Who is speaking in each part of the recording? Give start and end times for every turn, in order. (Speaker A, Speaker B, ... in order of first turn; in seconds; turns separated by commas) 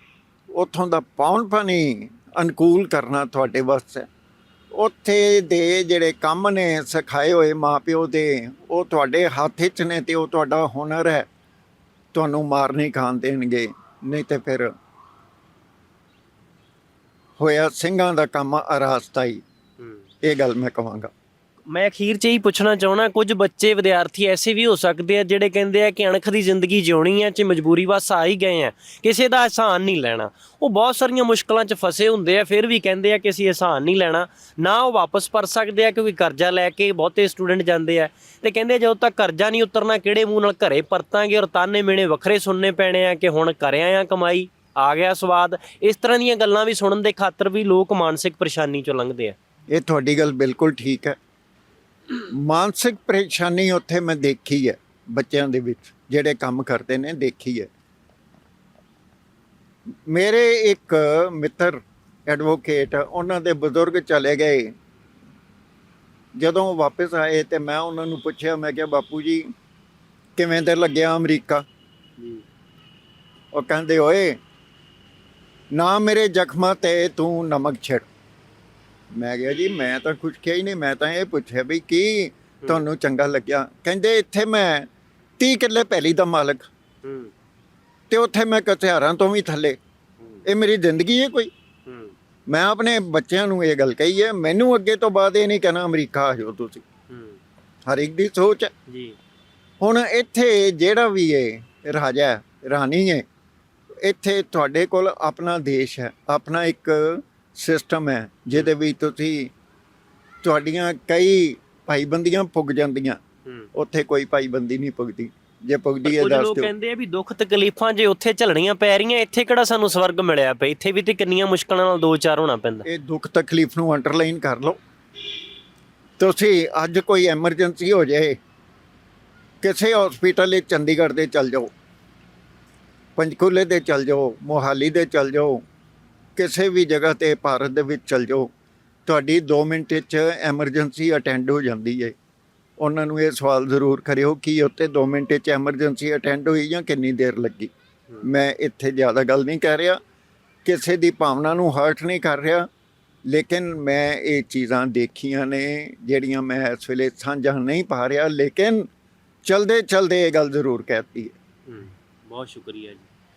Speaker A: 0.5-4.1, Speaker A: 4.7-11.3, Speaker A: 12.1-14.7, Speaker A: 17.4-19.4, Speaker A: 20.2-21.1, Speaker B: 21.7-49.4, Speaker A: 49.7-51.2, Speaker A: 52.3-57.7, Speaker A: 60.1-64.8, Speaker A: 66.3-69.5, Speaker A: 70.4-71.7, Speaker A: 73.5-74.4, Speaker A: 75.7-78.0, Speaker A: 79.1-86.7, Speaker B: 87.0-87.3, Speaker A: 88.1-89.8, Speaker A: 90.5-91.5, Speaker B: 91.9-92.1, Speaker A: 92.5-96.9, Speaker B: 97.1-97.4, Speaker A: 97.9-98.7, Speaker B: 98.9-99.2, Speaker A: 99.8-103.2, Speaker A: 104.0-109.5, Speaker A: 110.4-113.2, Speaker A: 113.7-116.7, Speaker B: 116.0-122.9, Speaker A: 122.9-124.8, Speaker A: 126.2-128.4, Speaker A: 129.6-131.7, Speaker A: 133.2-135.6, Speaker A: 136.4-138.5, Speaker A: 139.1-142.2, Speaker A: 142.8-150.0, Speaker A: 150.7-152.7, Speaker A: 153.3-158.9, Speaker A: 159.4-161.3, Speaker B: 161.7-163.1